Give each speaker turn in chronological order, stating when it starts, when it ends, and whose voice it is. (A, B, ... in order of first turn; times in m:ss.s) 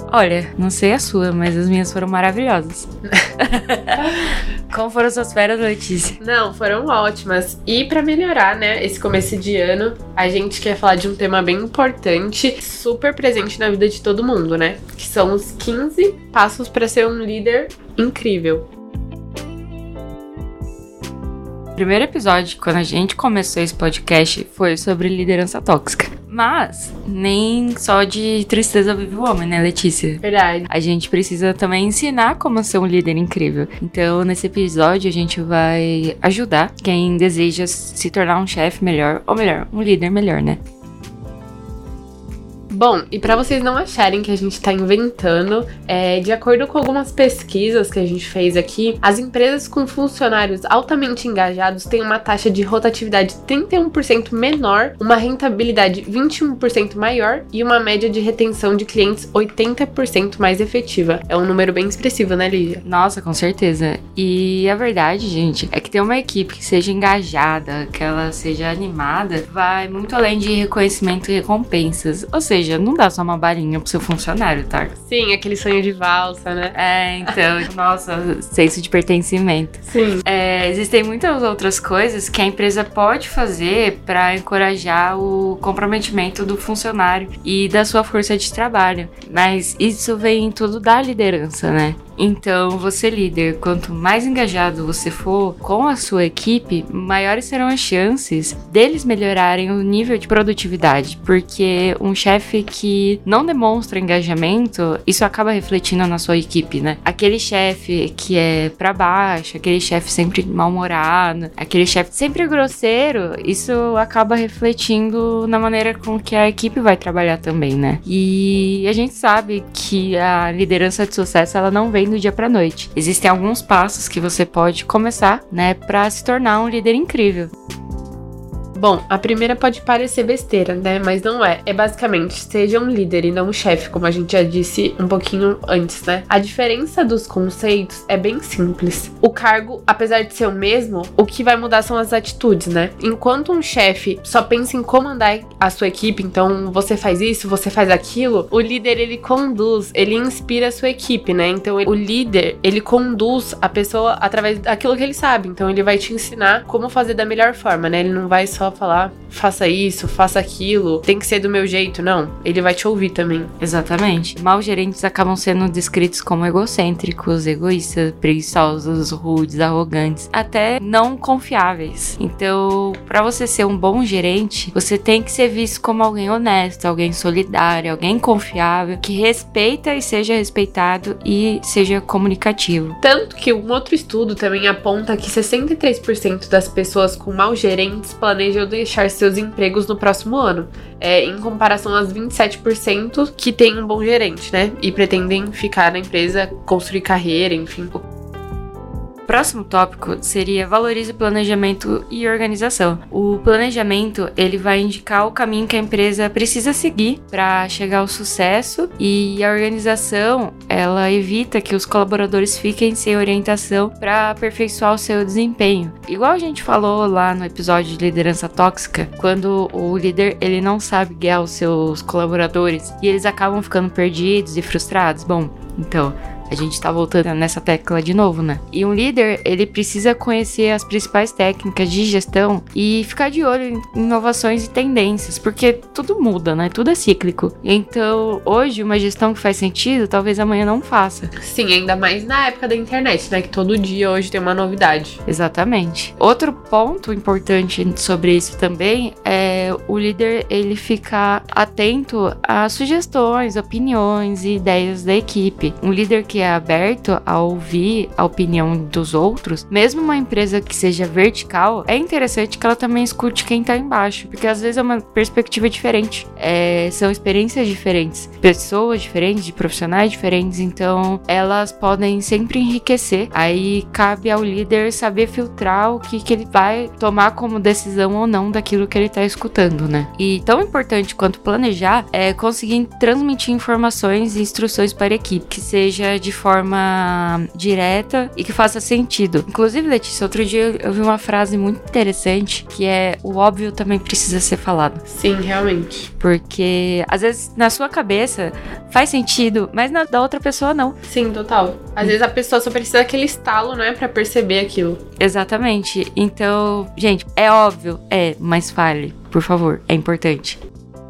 0:00.1-0:02.9 A
0:03.4-0:06.2 A
0:06.2-0:18.6 B
0:21.8-0:40.6 A
0:30.2-0:30.7 B
0:42.7-1:02.8 B
1:02.8-1:14.9 A
1:15.0-1:17.3 B
1:16.7-2:07.5 A
1:19.9-1:20.2 B
2:08.8-2:43.5 B
2:43.6-3:03.0 A
3:03.0-3:17.9 B
3:19.2-4:01.3 A
4:01.4-4:05.2 B
4:05.2-4:55.0 A
4:55.0-4:56.1 B
4:56.2-5:01.0 A
5:01.0-5:05.0 B
5:05.2-5:10.6 A